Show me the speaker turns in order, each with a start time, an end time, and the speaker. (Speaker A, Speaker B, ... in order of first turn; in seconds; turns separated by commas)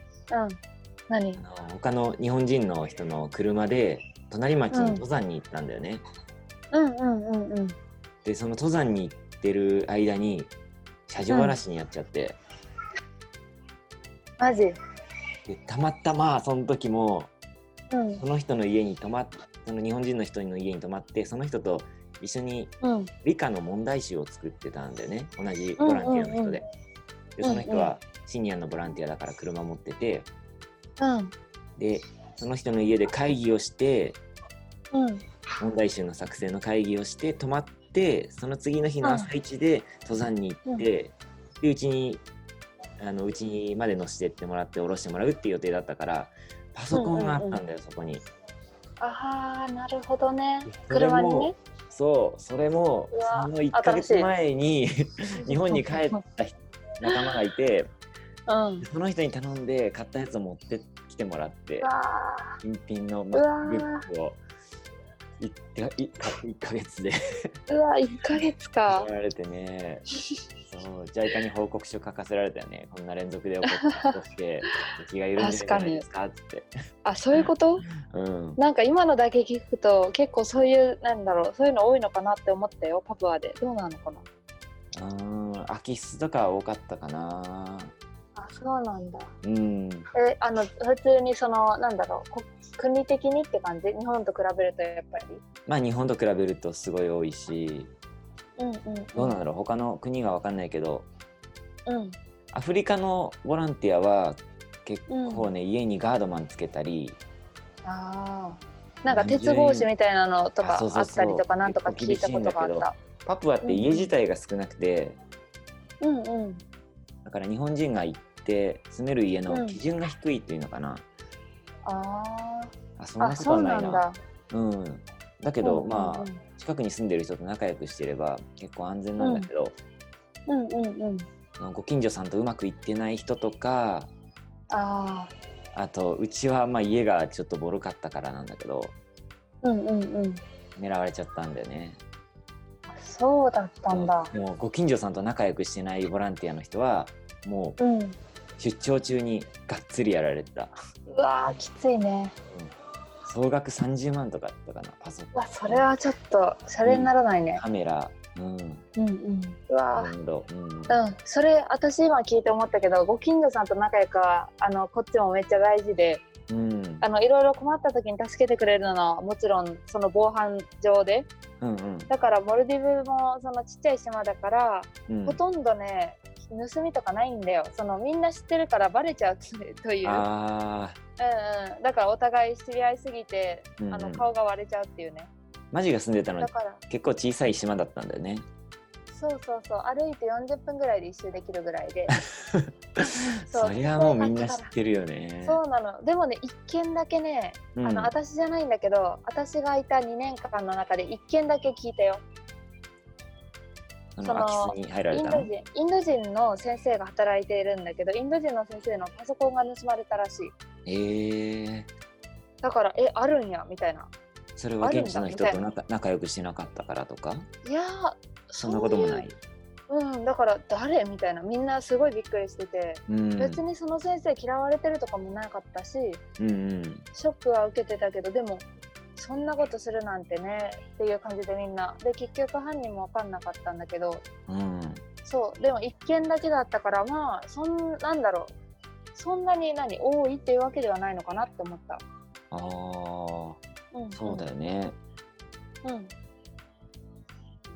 Speaker A: 0.3-0.6, Speaker A: 1.1-1.4, Speaker B: 1.3-6.0, Speaker A: 4.7-5.0, Speaker A: 6.7-7.7, Speaker B: 8.2-10.5, Speaker B: 11.1-12.4, Speaker A: 14.4-14.7, Speaker B: 15.5-17.3, Speaker A: 17.9-18.2, Speaker B: 18.2-26.6, Speaker A: 22.8-23.1, Speaker A: 25.8-26.6, Speaker B: 27.4-30.3, Speaker A: 27.4-27.9, Speaker A: 31.0-31.3, Speaker B: 31.8-34.2, Speaker A: 34.9-35.2, Speaker B: 35.6-42.2, Speaker A: 39.0-39.3, Speaker B: 43.0-48.2, Speaker A: 46.9-47.6, Speaker A: 49.0-51.5, Speaker B: 50.6-54.9, Speaker A: 53.1-54.3, Speaker B: 55.4-57.9, Speaker A: 55.4-56.2, Speaker A: 58.5-58.8, Speaker B: 58.8-61.9, Speaker A: 61.8-62.5, Speaker B: 62.6-64.4, Speaker A: 63.3-64.0, Speaker B: 65.4-67.5, Speaker A: 67.7-69.0, Speaker B: 68.9-70.0, Speaker B: 70.7-76.7, Speaker A: 73.8-74.1, Speaker A: 75.4-76.0, Speaker A: 77.0-77.8, Speaker B: 77.3-78.6, Speaker A: 78.6-84.2, Speaker B: 84.9-87.9, Speaker A: 88.3-89.3, Speaker B: 89.4-90.1, Speaker A: 90.2-95.4, Speaker B: 95.7-97.9, Speaker A: 98.6-99.3, Speaker B: 99.1-101.1, Speaker A: 101.9-102.2, Speaker B: 102.5-107.2, Speaker A: 105.1-105.5, Speaker A: 107.8-113.0, Speaker B: 109.1-109.9, Speaker B: 110.6-115.2, Speaker A: 113.6-114.1, Speaker A: 116.0-116.6, Speaker B: 117.2-121.0, Speaker A: 119.5-119.8, Speaker A: 121.8-124.2, Speaker B: 123.0-129.7, Speaker A: 125.6-126.4, Speaker A: 129.2-129.5, Speaker A: 130.5-131.2, Speaker B: 131.6-134.1, Speaker A: 134.7-135.3, Speaker B: 135.7-138.9, Speaker A: 139.6-140.4, Speaker B: 140.8-142.0, Speaker A: 142.9-144.3, Speaker B: 143.9-147.8, Speaker A: 147.8-148.2, Speaker B: 148.6-150.7, Speaker A: 151.1-152.3, Speaker B: 153.2-155.9, Speaker A: 155.3-157.6, Speaker B: 156.8-158.8, Speaker A: 159.0-160.1, Speaker B: 159.9-161.0, Speaker A: 160.9-166.2, Speaker B: 166.5-167.0, Speaker A: 167.0-171.3, Speaker B: 171.6-172.1, Speaker A: 172.1-180.2, Speaker B: 175.1-175.4, Speaker B: 180.0-181.0, Speaker A: 181.2-185.3, Speaker B: 183.8-184.3, Speaker B: 185.7-188.4, Speaker A: 186.4-186.8, Speaker A: 189.1-192.1, Speaker B: 192.5-195.6, Speaker A: 193.5-194.7, Speaker A: 195.4-202.2, Speaker B: 197.7-198.1, Speaker B: 204.2-205.5, Speaker A: 204.2-210.5, Speaker B: 210.8-211.9, Speaker A: 212.6-214.1, Speaker B: 214.6-217.5, Speaker A: 214.8-215.6, Speaker A: 217.6-219.2, Speaker B: 218.6-219.3, Speaker A: 219.9-226.2, Speaker B: 223.1-223.6, Speaker B: 226.4-227.1, Speaker A: 227.1-234.2, Speaker B: 234.5-235.0, Speaker A: 235.2-238.5, Speaker A: 239.1-242.0, Speaker B: 242.5-243.6, Speaker A: 243.9-244.5, Speaker B: 244.1-245.0, Speaker A: 245.8-246.1